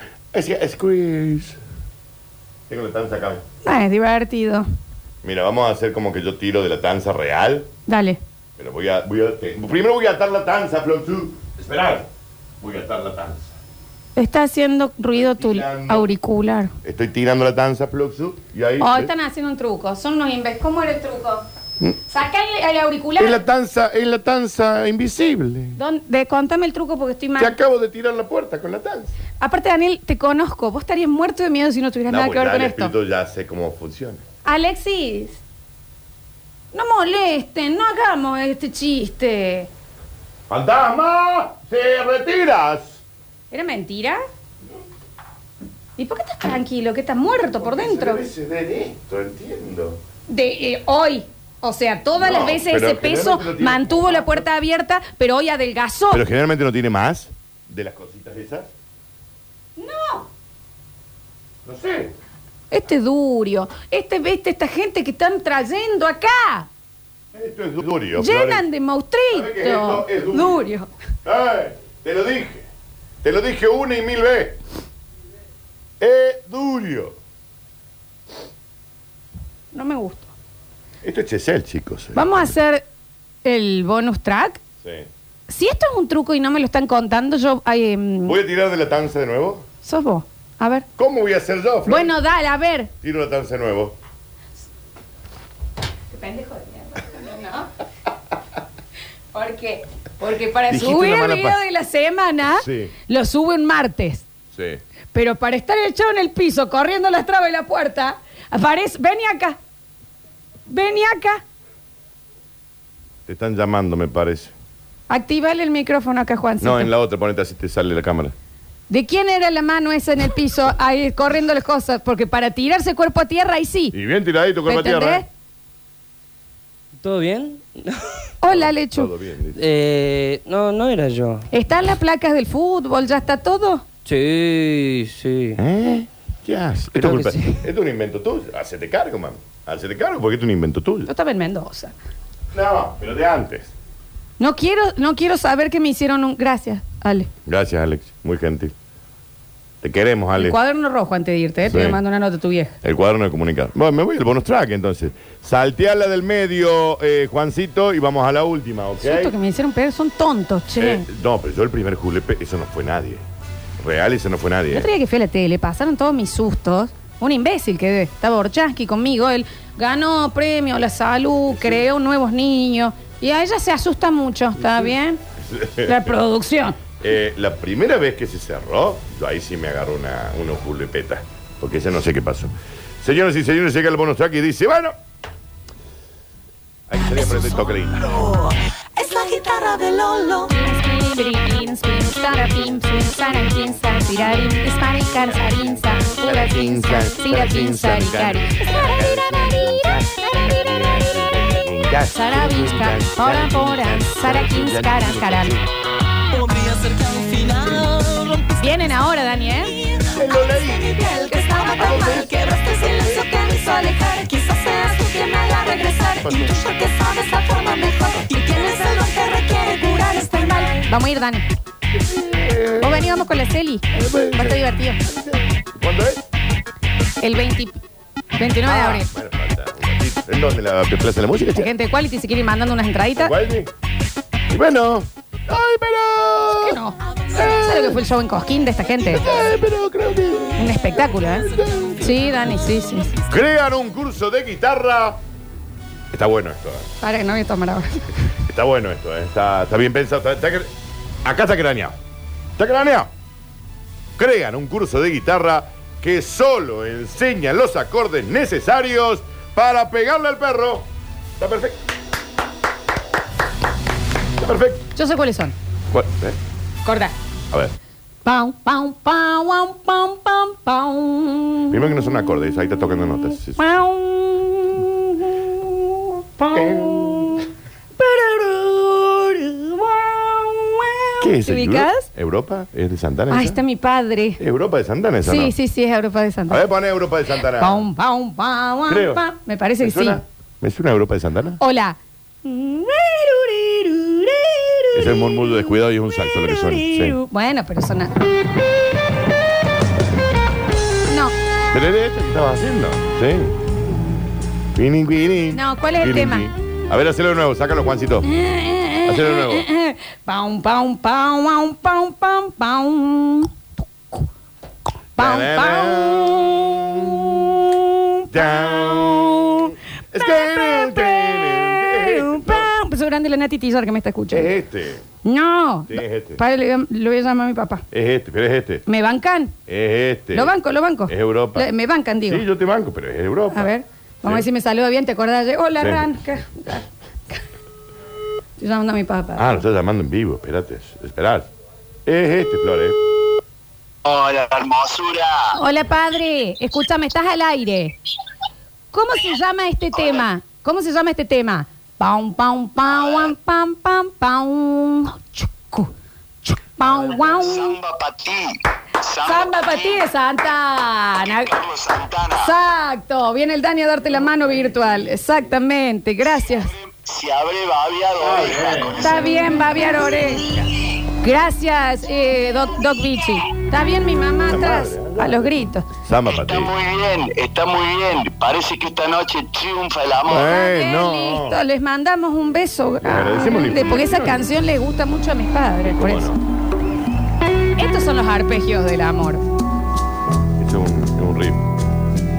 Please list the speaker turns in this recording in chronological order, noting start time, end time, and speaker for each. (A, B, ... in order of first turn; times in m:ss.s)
0:00.3-0:01.6 A
0:02.7-0:03.4 A
0:03.6-0:04.6 B
0:05.2-0:07.7 A
0:07.9-0:08.2 B
0:08.6-0:12.1 A
0:12.6-0:13.5 A
0:14.2-0:16.7 B
0:15.1-0:16.1 A
0:16.8-0:19.1 A
0:18.8-0:21.4 B
0:22.0-0:23.4 B
0:23.2-0:25.8 A
0:25.8-0:27.5 B
0:27.4-0:29.1 A
0:29.4-0:32.9 B
0:32.1-0:34.2 A
0:34.4-0:35.4 B
0:36.7-0:39.7 B
0:40.5-0:43.0 A
0:43.5-0:44.2 B
0:46.0-0:48.2 B
0:47.5-0:50.0 A
0:50.3-0:56.2 B
0:52.2-0:54.4 A
0:56.1-0:58.7 A
0:59.8-1:00.3 B
1:01.6-1:02.1 A
1:02.7-1:06.7 B
1:07.3-1:08.6 A
1:08.2-1:10.9 B
1:09.3-1:10.6 A
1:11.2-1:12.7 A
1:13.2-1:14.6 A
1:16.0-1:17.2 A
1:19.7-1:20.3 B
1:21.0-1:22.5 A
1:22.1-1:22.8 B
1:23.4-1:24.6 B
1:24.8-1:25.1 A
1:25.5-1:28.4 B
1:28.2-1:29.6 A
1:29.8-1:30.9 B
1:31.0-1:32.2 A
1:31.9-1:32.9 B
1:33.0-1:34.0 A
1:36.1-1:37.7 B
1:39.3-1:44.2 B
1:40.7-1:41.6 A
1:42.5-1:42.9 A
1:44.5-1:44.8 A
1:45.1-1:49.6 B
1:50.7-1:51.4 B
1:53.3-1:54.5 A
1:55.1-1:56.9 B
1:56.6-1:58.3 A
1:58.9-2:04.0 B
2:03.9-2:05.2 A
2:04.7-2:05.3 B
2:07.0-2:08.1 C
2:08.4-2:09.1 B
2:08.5-2:09.6 A
2:09.5-2:11.5 C
2:11.5-2:13.8 B
2:14.0-2:15.6 C
2:15.6-2:21.1 A
2:17.0-2:17.6 C
2:21.1-2:21.9 B
2:22.5-2:23.7 A
2:24.4-2:27.3 B
2:27.4-2:28.7 A
2:29.8-2:30.6 A
2:30.4-2:32.8 B
2:31.6-2:32.0 A
2:32.8-2:39.3 A
2:39.0-2:41.1 B
2:40.8-2:43.2 A
2:43.8-2:44.9 A
2:44.7-2:55.2 B
2:51.5-2:51.8 A
2:55.4-2:56.1 A
2:55.8-2:56.8 B
2:57.0-3:05.0 A
3:06.9-3:08.5 A
3:09.0-3:10.5 D
3:10.4-3:21.1 B
3:13.3-3:25.7 A
3:22.1-3:25.6 B
3:26.3-3:28.8 D
3:28.6-3:29.8 B
3:29.8-3:40.1 D
3:30.1-3:33.3 A
3:31.0-3:41.4 B
3:36.2-3:36.8 A
3:41.9-3:43.2 A
3:42.8-3:45.0 B
3:43.9-3:46.3 A
3:47.2-3:47.8 B
3:48.3-3:49.1 B
3:48.6-3:51.7 A
3:51.5-3:53.3 B
3:53.2-3:53.7 A
3:54.5-3:56.8 A
3:56.6-3:59.4 B
3:57.3-3:58.0 A
3:59.0-4:02.3 A
4:00.6-4:03.1 B
4:03.2-4:05.2 A
4:06.1-4:06.9 A
4:07.0-4:08.1 B
4:08.4-4:10.7 A
4:11.2-4:12.0 A
4:12.6-4:13.1 A
4:14.2-4:21.8 A
4:24.4-4:24.8 A
4:25.0-4:25.5 B
4:25.9-4:26.4 A
4:26.8-4:27.1 B
4:28.2-4:31.8 B
4:31.7-4:33.6 A
4:33.5-4:42.1 B
4:36.5-4:37.4 A
4:41.2-4:43.6 A
4:43.3-4:44.4 B
4:44.4-4:45.5 A
4:45.2-4:46.6 B
4:46.5-4:47.9 A
4:47.6-4:50.2 B
4:48.9-4:49.2 A
4:49.8-4:51.6 A
4:51.6-4:58.1 B
4:54.9-4:57.2 A
5:01.1-5:01.4 B
5:01.7-5:03.6 A
5:04.7-5:08.3 A
5:05.5-5:06.5 B
5:08.2-5:13.5 B
5:09.0-5:09.7 A
5:15.2-5:24.5 B
5:15.2-5:17.4 A
5:18.3-5:22.7 A
5:24.3-5:25.0 A
5:25.2-5:27.8 B
5:25.9-5:26.4 A
5:27.9-5:28.8 A
5:28.9-5:29.5 B
5:29.7-5:30.5 A
5:30.3-5:32.4 B
5:31.1-5:31.7 A
5:32.3-5:33.7 A
5:33.5-5:37.4 B
5:35.8-5:36.1 A
5:38.6-5:39.6 B
5:39.4-5:41.5 A
5:42.1-5:43.0 A
5:44.0-5:45.6 E
5:45.5-5:48.0 B
5:48.9-5:55.9 B
5:53.0-5:53.3 E
5:56.4-5:57.8 B
5:57.2-6:00.0 E
5:59.2-6:01.6 B
6:01.4-6:02.5 E
6:02.4-6:06.7 B
6:06.6-6:09.4 E
6:08.2-6:09.0 A
6:09.0-6:10.6 B
6:11.2-6:15.9 B
6:14.5-6:16.7 A
6:16.3-6:20.5 E
6:20.3-6:21.6 A
6:20.3-6:26.3 B
6:23.0-6:24.4 A
6:25.8-6:26.4 A
6:27.8-6:29.4 B
6:30.6-6:31.6 A